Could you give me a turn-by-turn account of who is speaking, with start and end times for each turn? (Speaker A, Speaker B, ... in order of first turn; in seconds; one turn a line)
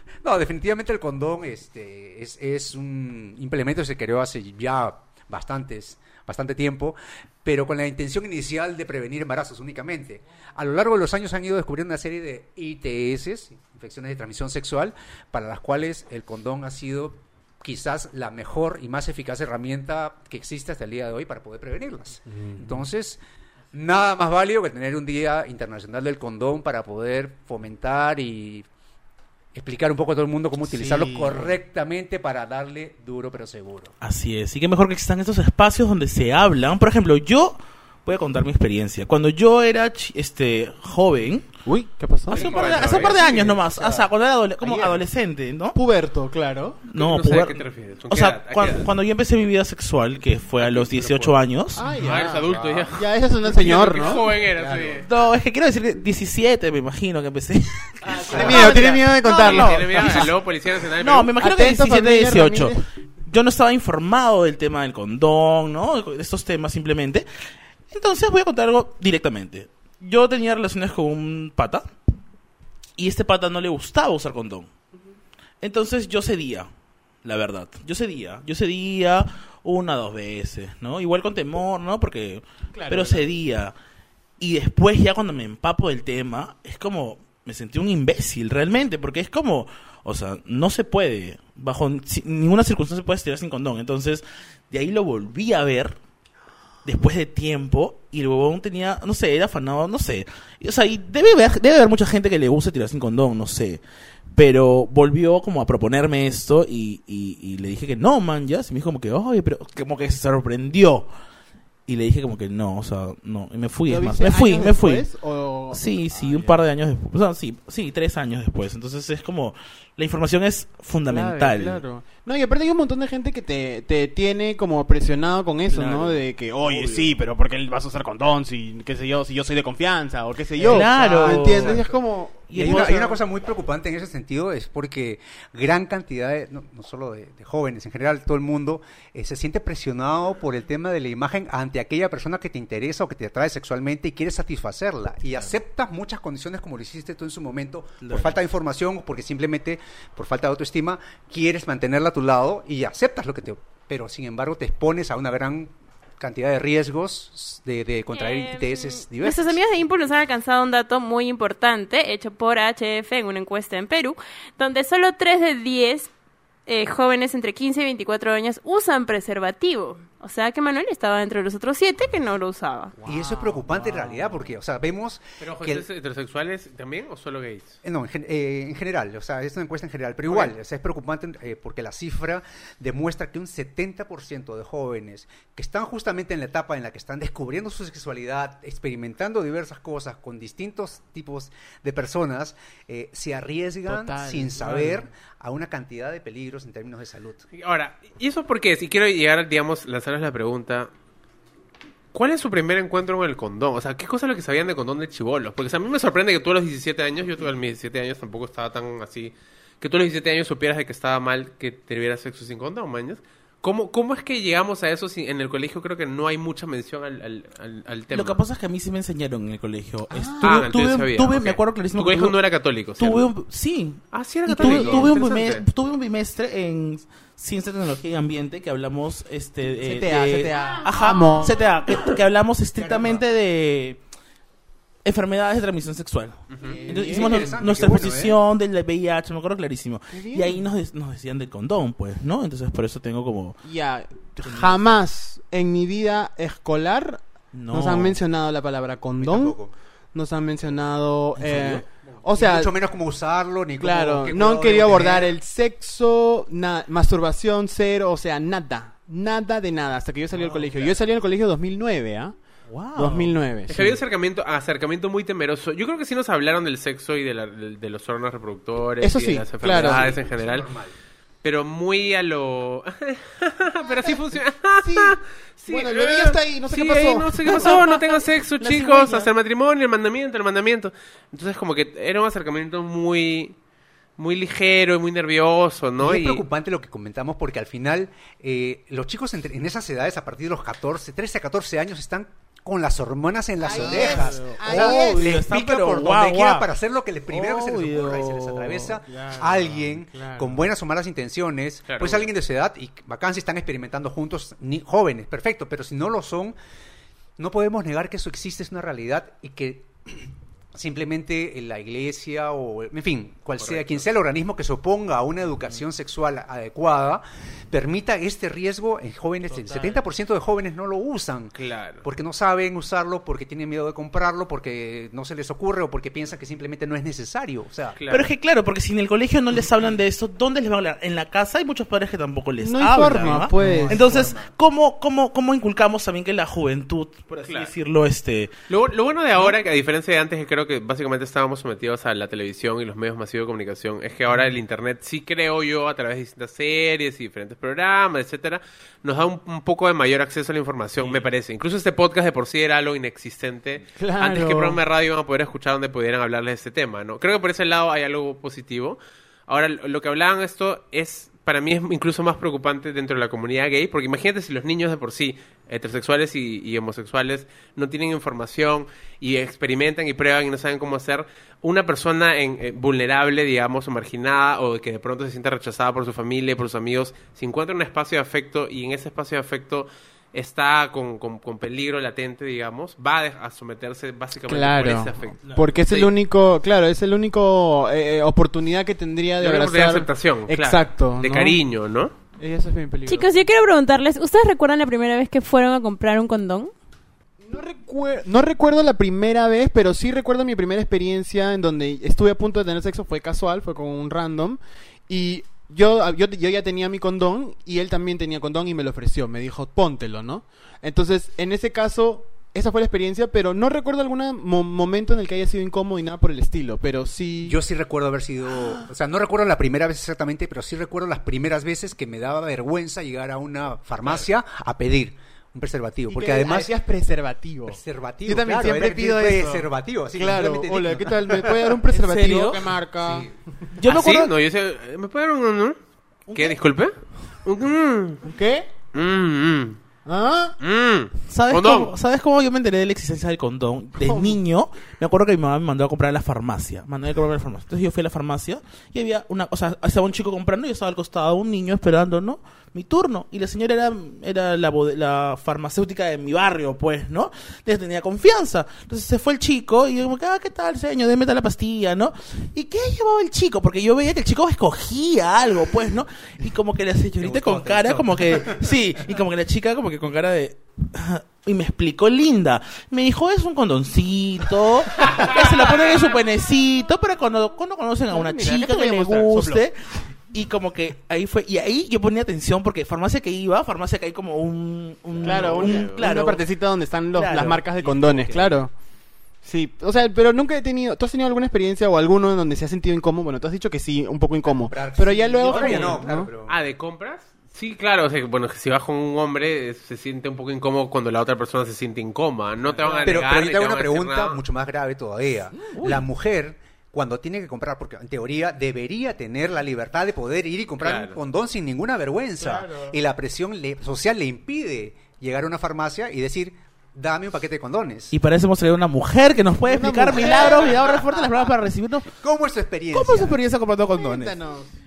Speaker A: 0.2-23.2
Speaker A: 23.7-28.7
Speaker A: 29.5-33.9
Speaker B: 30.7-31.6
Speaker C: 34.0-41.5
Speaker B: 41.6-42.5
Speaker C: 42.3-45.8
Speaker D: 42.3-43.2
Speaker A: 42.4-44.1
Speaker A: 44.6-45.0
Speaker B: 45.8-46.8
Speaker C: 46.9-51.9
Speaker D: 47.0-48.9
Speaker D: 50.6-51.4
Speaker B: 51.8-54.2
Speaker D: 52.0-55.1
Speaker A: 52.4-52.9
Speaker A: 53.8-55.1
Speaker C: 55.0-60.4
Speaker A: 58.1-58.7
Speaker B: 58.3-60.3
Speaker D: 58.6-58.8
Speaker D: 59.4-61.3
Speaker C: 61.0-67.3
Speaker B: 61.4-62.8
Speaker C: 67.9-71.9
Speaker C: 73.0-74.7
Speaker C: 75.6-76.7
Speaker C: 77.2-83.8
Speaker B: 82.7-83.3
Speaker C: 84.4-96.0
Speaker C: 96.8-111.1
Speaker C: 111.9-115.1
Speaker B: 113.9-116.6
Speaker C: 115.7-121.8
Speaker B: 121.1-133.1
Speaker C: 125.7-127.2
Speaker C: 130.6-131.8
Speaker A: 131.0-131.9
Speaker C: 132.5-133.2
Speaker A: 132.5-159.6
Speaker C: 148.0-148.4
Speaker E: 158.1-166.1
Speaker E: 166.7-173.0
Speaker B: 173.0-174.5
Speaker A: 173.1-175.9
Speaker D: 175.4-177.8
Speaker A: 177.8-197.4
Speaker D: 180.3-180.6
Speaker B: 193.9-195.1
Speaker D: 197.5-200.9
Speaker D: 202.1-218.4
Speaker C: 218.1-222.4
Speaker B: 220.1-220.7
Speaker D: 220.4-223.3
Speaker C: 223.0-234.0
Speaker D: 224.1-225.7
Speaker B: 224.5-225.1
Speaker B: 229.8-231.6
Speaker A: 232.8-233.2
Speaker C: 235.0-243.6
Speaker D: 236.5-236.8
Speaker B: 236.6-237.5
Speaker A: 236.9-238.4
Speaker B: 240.1-240.6
Speaker B: 243.6-249.6
Speaker C: 244.4-244.9
Speaker C: 247.5-248.2
Speaker A: 249.2-249.7
Speaker B: 250.1-252.7
Speaker C: 251.4-251.8
Speaker A: 252.4-255.3
Speaker B: 253.8-262.3
Speaker A: 260.5-260.9
Speaker C: 262.7-263.4
Speaker B: 262.9-263.9
Speaker D: 263.7-270.7
Speaker B: 269.0-270.1
Speaker A: 269.7-270.9
Speaker D: 271.4-283.6
Speaker B: 274.8-277.8
Speaker C: 277.6-277.9
Speaker C: 278.6-279.3
Speaker D: 284.2-286.4
Speaker A: 286.0-306.6
Speaker B: 293.6-295.3
Speaker C: 293.7-296.7
Speaker C: 297.3-299.0
Speaker B: 299.1-300.7
Speaker D: 301.9-302.3
Speaker A: 307.4-328.0
Speaker D: 313.6-314.1
Speaker D: 321.6-322.0
Speaker D: 327.9-328.3
Speaker C: 328.1-338.5
Speaker B: 332.6-334.1
Speaker A: 333.6-334.5
Speaker D: 337.4-337.7
Speaker D: 338.7-386.1
Speaker B: 354.0-354.8
Speaker B: 384.5-391.6
Speaker D: 389.4-392.1
Speaker B: 392.4-393.3
Speaker E: 393.1-396.7
Speaker B: 397.4-417.6
Speaker A: 417.4-426.7
Speaker B: 426.1-433.3
Speaker A: 427.7-431.7
Speaker C: 431.9-432.7
Speaker C: 433.8-434.3
Speaker D: 433.9-435.8
Speaker C: 436.3-436.6
Speaker D: 436.3-438.2
Speaker B: 438.2-438.7
Speaker D: 438.9-439.8
Speaker B: 440.1-440.6
Speaker D: 440.6-441.9
Speaker C: 441.3-479.8
Speaker B: 444.0-444.4
Speaker A: 467.2-468.6
Speaker B: 478.1-479.7
Speaker C: 480.3-486.5
Speaker D: 485.2-486.0
Speaker B: 485.2-488.7
Speaker C: 487.1-488.6
Speaker B: 489.4-496.3
Speaker A: 494.5-496.6
Speaker C: 495.5-495.9
Speaker D: 495.6-495.9
Speaker D: 496.5-504.4
Speaker C: 502.7-503.1
Speaker B: 502.8-503.1
Speaker A: 503.1-518.1
Speaker C: 505.7-506.1
Speaker D: 510.8-511.2
Speaker B: 512.4-513.0
Speaker C: 518.1-522.1
Speaker B: 519.6-521.0
Speaker A: 522.2-523.4
Speaker C: 522.9-524.4
Speaker B: 524.0-524.7